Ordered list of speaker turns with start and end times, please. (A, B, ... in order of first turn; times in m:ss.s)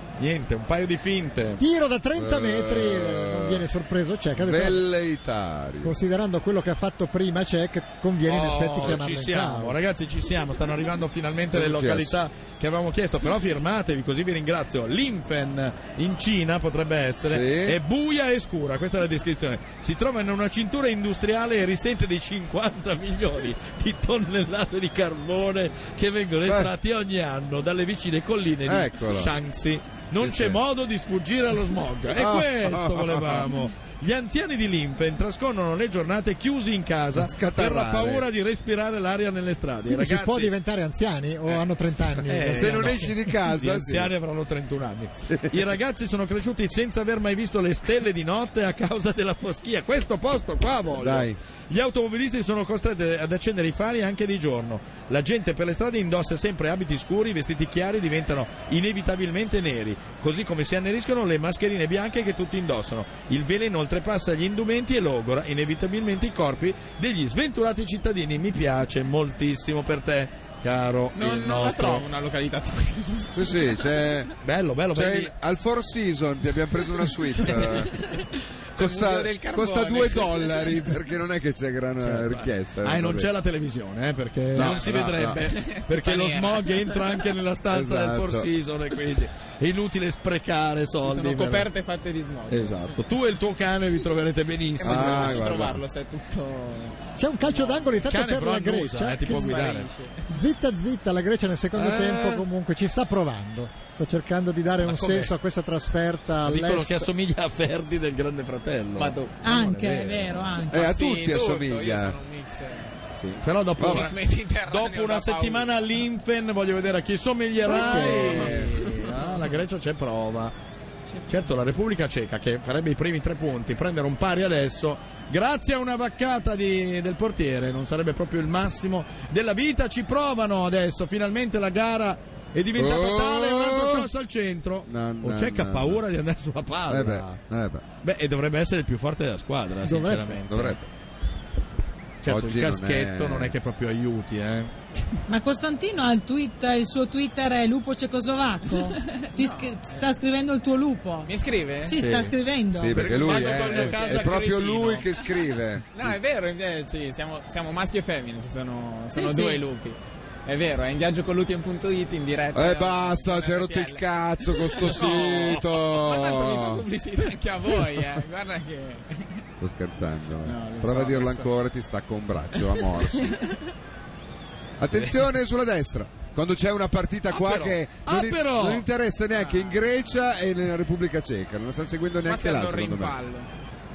0:00.2-0:01.6 A
0:01.6-0:04.9 B
0:02.2-0:03.6 C
0:04.4-0:06.0 C
0:05.8-0:09.8 B
0:08.3-0:40.5 A
0:11.5-0:12.2 C
0:17.2-0:17.8 C
0:28.7-0:29.3 C
0:30.1-0:30.6 C
0:32.2-0:33.5 C
0:37.2-0:38.2 C
0:39.9-0:43.1 B
0:42.2-1:12.0 A
0:42.5-0:44.1 C
0:51.0-0:51.4 C
1:11.1-1:13.8 D
1:13.3-1:14.3 C
1:14.4-1:15.3 A
1:14.9-1:18.0 C
1:17.4-1:20.9 D
1:18.8-1:23.3 C
1:22.0-1:31.7 A
1:24.5-1:25.4 C
1:24.6-1:27.0 D
1:27.7-1:28.5 C
1:31.0-1:33.0 D
1:32.5-1:35.5 A
1:34.8-1:38.0 D
1:34.8-1:35.8 C
1:37.2-1:39.6 B
1:38.1-1:39.9 A
1:39.3-1:40.3 D
1:40.3-1:47.1 B
1:41.7-1:42.4 C
1:44.8-1:45.3 A
1:46.4-1:50.6 A
1:49.0-1:49.4 D
1:49.4-1:50.8 E
1:50.7-1:52.2 C
1:50.7-1:53.0 D
1:53.1-2:00.6 A
1:53.8-1:54.1 C
1:53.8-1:55.7 D
1:57.7-1:58.8 C
1:57.7-1:59.6 D
1:57.8-1:58.3 B
2:01.3-2:17.4 A
2:12.8-2:14.1 C
2:14.9-2:16.0 C
2:16.9-2:17.8 C
2:18.0-2:20.8 A
2:19.8-2:20.4 B
2:20.5-2:20.8 C
2:22.2-2:24.7 A
2:22.3-2:23.5 C
2:25.3-2:31.3 E
2:29.3-2:30.0 D
2:31.2-2:32.0 D
2:31.8-2:33.1 E
2:32.0-2:35.1 A
2:32.7-2:36.2 C
2:33.2-2:34.3 D
2:35.9-2:49.4 D
2:39.2-2:39.6 E
2:42.5-2:46.8 C
2:49.6-2:53.5 C
2:50.4-2:51.5 D
2:52.6-2:53.6 D
2:54.8-3:03.2 C
2:57.3-2:58.9 A
2:59.4-2:59.8 D
3:02.3-3:03.5 D